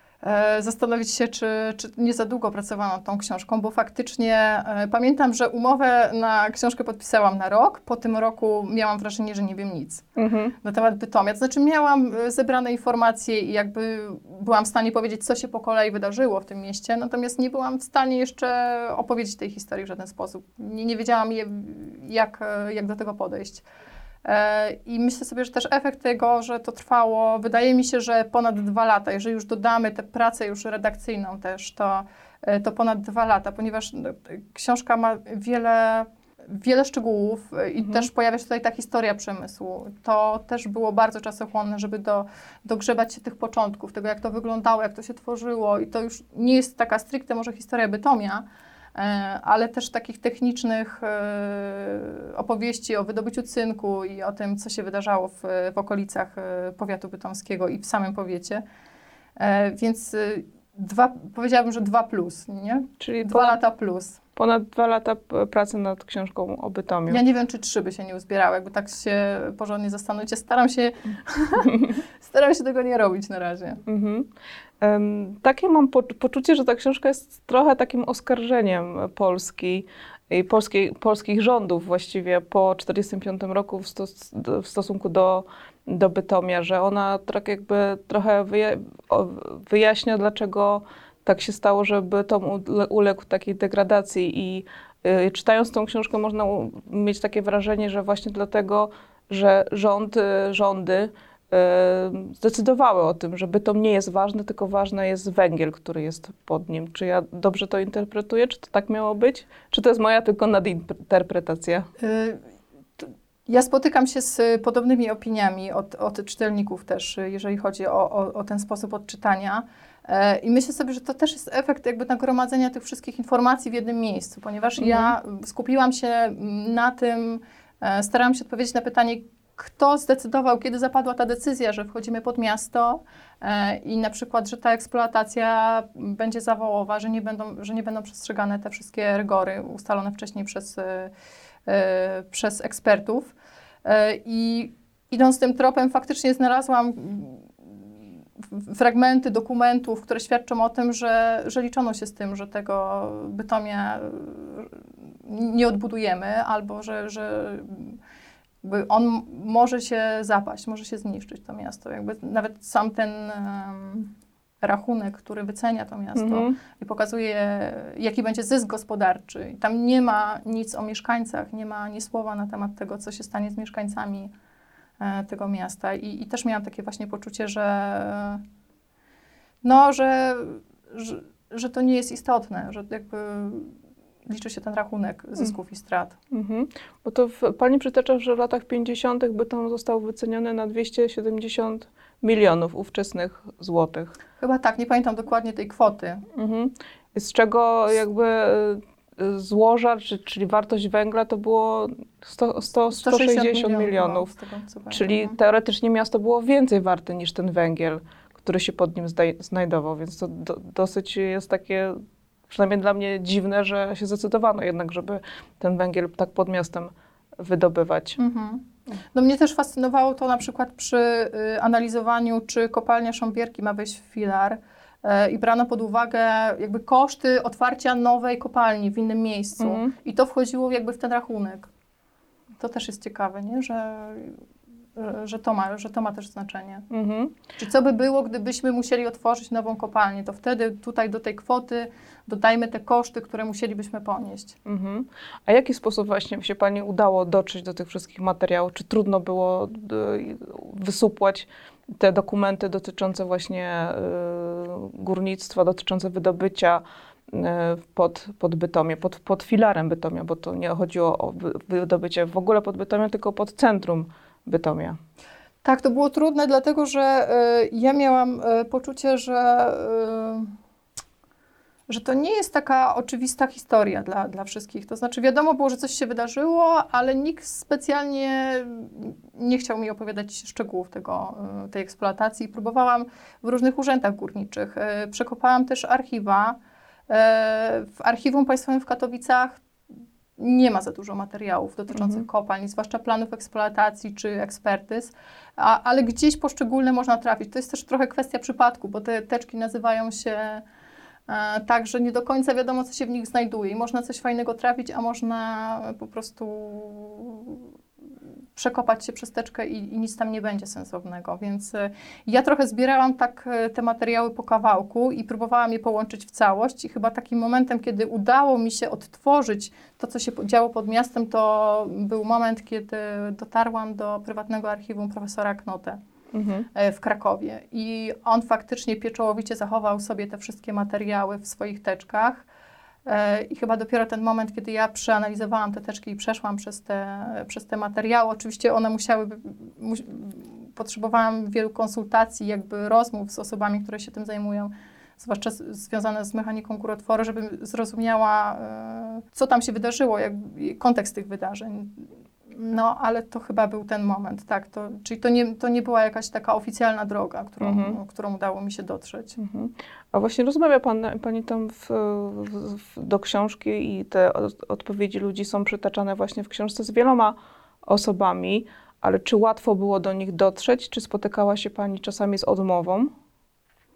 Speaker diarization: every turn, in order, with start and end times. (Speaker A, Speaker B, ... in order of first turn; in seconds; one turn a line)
Speaker A: 0.2-10.1
Speaker B: 10.2-10.5
Speaker A: 10.6-23.6
Speaker A: 24.2-48.4
Speaker B: 37.8-38.1
Speaker A: 49.0-58.6
Speaker A: 59.4-64.2
Speaker B: 63.0-63.6
Speaker B: 64.4-67.2
Speaker A: 67.1-73.8
Speaker B: 73.9-74.3
Speaker B: 74.8-111.9
Speaker A: 112.0-112.4
Speaker A: 113.0-141.1
Speaker B: 124.8-125.2
Speaker A: 141.7-143.3
Speaker A: 143.8-147.7
Speaker A: 148.4-158.0
Speaker A: 158.6-164.1
Speaker A: 164.6-174.3
Speaker B: 166.2-166.5
Speaker A: 175.0-178.4
Speaker A: 179.6-183.7
Speaker A: 184.3-186.2
Speaker B: 186.3-194.2
Speaker A: 194.4-196.2
Speaker B: 196.3-204.3
Speaker A: 202.9-205.4
Speaker B: 204.9-212.0
Speaker B: 212.5-218.2
Speaker A: 218.2-231.7
Speaker B: 229.6-229.9
Speaker A: 232.6-234.4
Speaker A: 235.0-236.8
Speaker B: 236.9-237.3
Speaker A: 237.6-244.6
Speaker B: 244.7-265.0
Speaker A: 265.6-270.5
Speaker A: 271.9-286.6
Speaker A: 287.1-289.6
Speaker A: 290.4-300.6
Speaker B: 291.9-292.2
Speaker A: 301.3-307.7
Speaker A: 308.6-326.0
Speaker B: 326.3-326.7
Speaker A: 326.8-332.5
Speaker A: 333.1-359.4
Speaker B: 357.6-358.0
Speaker B: 359.4-373.1